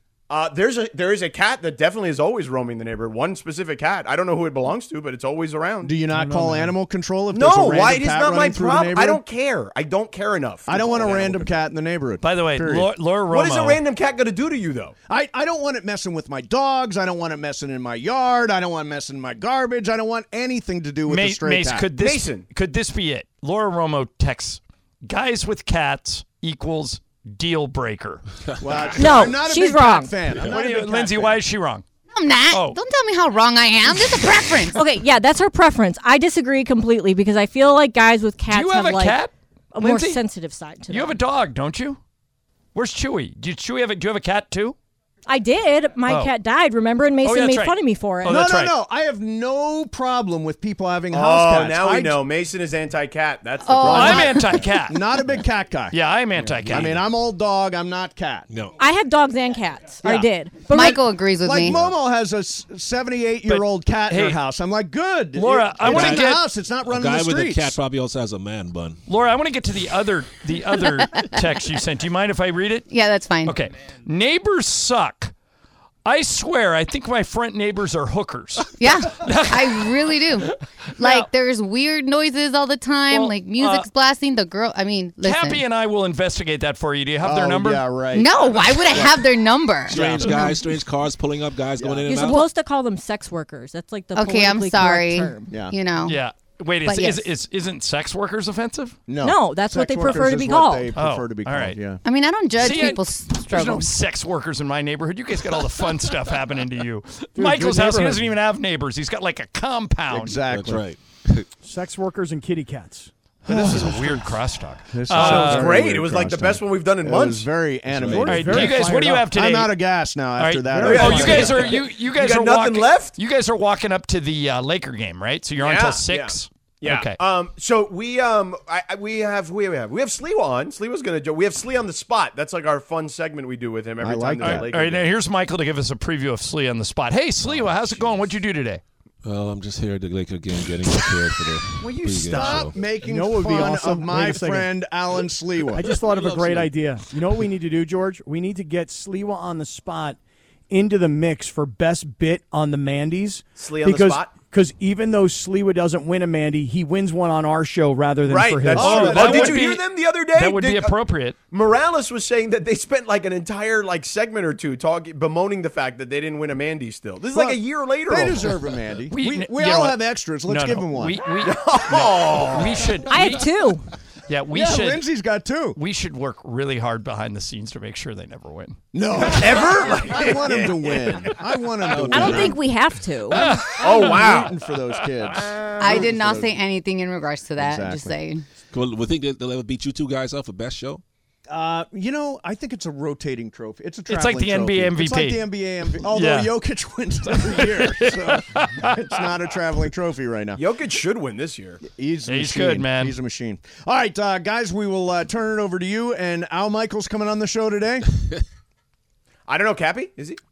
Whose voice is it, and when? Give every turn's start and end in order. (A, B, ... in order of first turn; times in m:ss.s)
0:00.3-0:05.9 A
0:05.8-0:09.2 B
0:06.1-0:06.7 C
0:07.3-0:11.5 A
0:10.7-0:12.9 B
0:12.2-0:13.8 D
0:13.3-0:14.9 A
0:15.1-0:21.9 B
0:21.1-0:28.2 D
0:22.0-0:22.4 A
0:28.6-0:31.4 B
0:28.7-0:29.1 E
0:29.0-0:30.2 F
0:30.5-0:31.8 D
0:32.1-0:34.8 G
0:32.5-0:32.8 D
0:34.7-0:39.2 F
0:38.5-0:40.2 D
0:39.7-0:41.1 F
0:40.9-0:42.0 D
0:42.7-0:44.8 D
0:45.3-0:48.4 F
0:46.1-0:46.3 D
0:47.2-0:48.7 D
0:48.2-0:52.2 B
0:51.1-0:54.3 A
0:53.6-0:54.3 G
0:53.7-0:56.0 B
0:53.8-0:55.1 D
0:55.9-0:57.0 D
0:56.4-0:57.0 E
0:56.7-0:58.5 B
0:58.5-0:58.7 E
0:58.8-1:01.0 F
1:00.0-1:00.3 B
1:00.6-1:01.8 G
1:01.4-1:07.8 B
1:01.6-1:01.9 E
1:03.5-1:04.4 D
1:05.3-1:06.4 D
1:05.8-1:06.3 E
1:06.8-1:09.0 E
1:09.1-1:12.9 D
1:12.9-1:13.5 G
1:13.4-1:15.3 D
1:16.0-1:21.3 D
1:18.8-1:25.6 G
1:23.1-1:23.9 D
1:25.2-1:27.8 D
1:27.2-1:29.3 B
1:28.1-1:30.5 G
1:29.9-1:32.5 E
1:29.9-1:30.5 B
1:31.8-1:32.2 B
1:32.1-1:35.5 F
1:34.1-1:36.2 G
1:35.5-1:35.7 B
1:36.0-1:39.0 D
1:36.8-1:37.2 G
1:39.1-1:42.0 B
1:39.2-1:40.9 F
1:41.0-1:41.8 D
1:42.0-1:43.9 G
1:42.6-1:50.4 D
1:47.3-1:48.3 C
1:50.1-1:50.8 B
1:50.5-1:51.4 E
1:51.6-1:54.1 C
1:53.4-1:55.8 D
1:53.5-1:54.2 B
1:54.9-2:01.6 B
1:55.2-1:57.5 A
1:57.9-1:58.3 E
1:58.1-1:59.3 C
1:58.3-1:59.7 D
2:00.3-2:07.2 D
2:00.7-2:01.3 C
2:00.8-2:03.1 A
2:05.6-2:15.0 A
2:14.0-2:14.7 B
2:14.4-2:18.8 D
2:19.2-2:22.8 E
2:21.8-2:22.7 A
2:22.2-2:25.8 B
2:23.0-2:24.7 C
2:25.8-2:30.2 C
2:25.8-2:26.7 E
2:30.7-2:39.1 C
2:33.5-2:34.4 A
2:38.3-2:40.9 A
2:38.7-2:39.7 B
2:38.8-2:41.4 D
2:41.5-2:48.6 A
2:47.3-2:51.2 B
2:49.1-2:53.8 D
2:51.4-2:52.7 A
2:53.0-2:53.8 F
2:54.3-2:55.0 D
2:54.5-2:55.8 B
2:55.7-2:59.6 D
2:58.9-3:02.6 B
2:59.3-3:01.2 A
3:01.8-3:02.5 E
3:02.1-3:03.4 F
3:03.3-3:04.5 D
3:03.4-3:06.6 B
3:03.8-3:04.5 A
3:05.8-3:08.4 G
3:07.6-3:08.1 B
3:08.7-3:11.0 E
3:11.5-3:20.6 B
3:14.1-3:15.4 D
3:16.1-3:16.5 D
3:17.6-3:18.9 D
3:20.6-3:21.8 A
3:21.8-3:28.1 B
3:22.3-3:23.1 D
3:29.5-3:30.4 A